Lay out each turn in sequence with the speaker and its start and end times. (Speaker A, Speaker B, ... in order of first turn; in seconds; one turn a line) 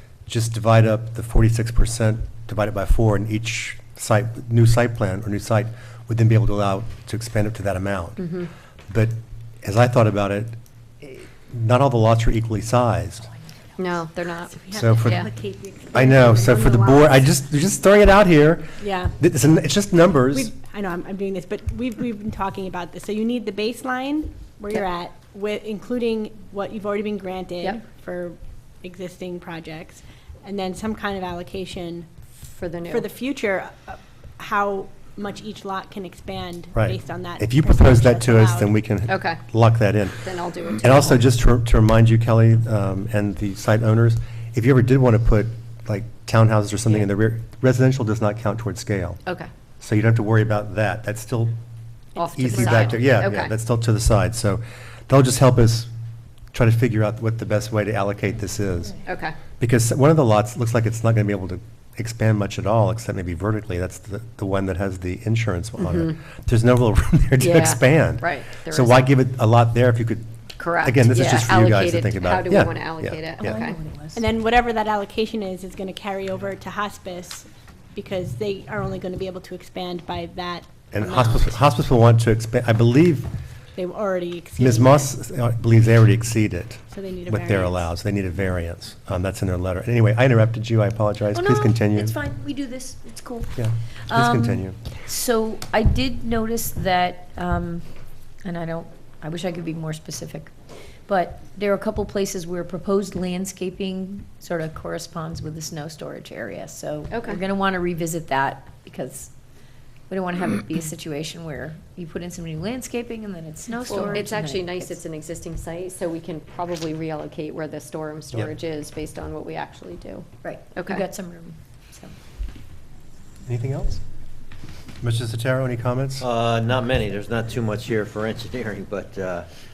Speaker A: 0.3-8.2
Speaker B: 8.2-8.5
Speaker A: 8.9-13.3
Speaker B: 13.8-15.3
Speaker C: 14.6-17.2
Speaker A: 14.7-15.3
Speaker A: 15.9-20.5
Speaker C: 18.8-19.1
Speaker C: 20.3-32.1
Speaker B: 32.4-33.1
Speaker C: 32.9-38.7
Speaker A: 36.7-49.2
Speaker B: 39.1-39.4
Speaker B: 40.2-41.2
Speaker B: 49.2-49.5
Speaker A: 49.8-51.5
Speaker B: 52.1-53.5
Speaker A: 52.2-55.9
Speaker A: 56.5-59.0
Speaker B: 59.0-59.4
Speaker A: 59.6-70.3
Speaker B: 65.8-66.2
Speaker B: 67.4-69.1
Speaker B: 70.6-73.8
Speaker A: 70.8-73.5
Speaker D: 73.4-74.2
Speaker C: 74.2-81.6
Speaker A: 80.9-83.3
Speaker C: 83.8-85.1
Speaker A: 84.6-92.1
Speaker C: 86.9-87.9
Speaker D: 91.3-97.8
Speaker A: 93.5-94.8
Speaker D: 98.4-100.5
Speaker D: 101.0-109.3
Speaker B: 107.1-107.4
Speaker D: 110.1-115.0
Speaker B: 113.8-121.0
Speaker D: 120.4-122.1
Speaker A: 123.4-124.0
Speaker A: 125.0-126.3
Speaker E: 126.2-129.5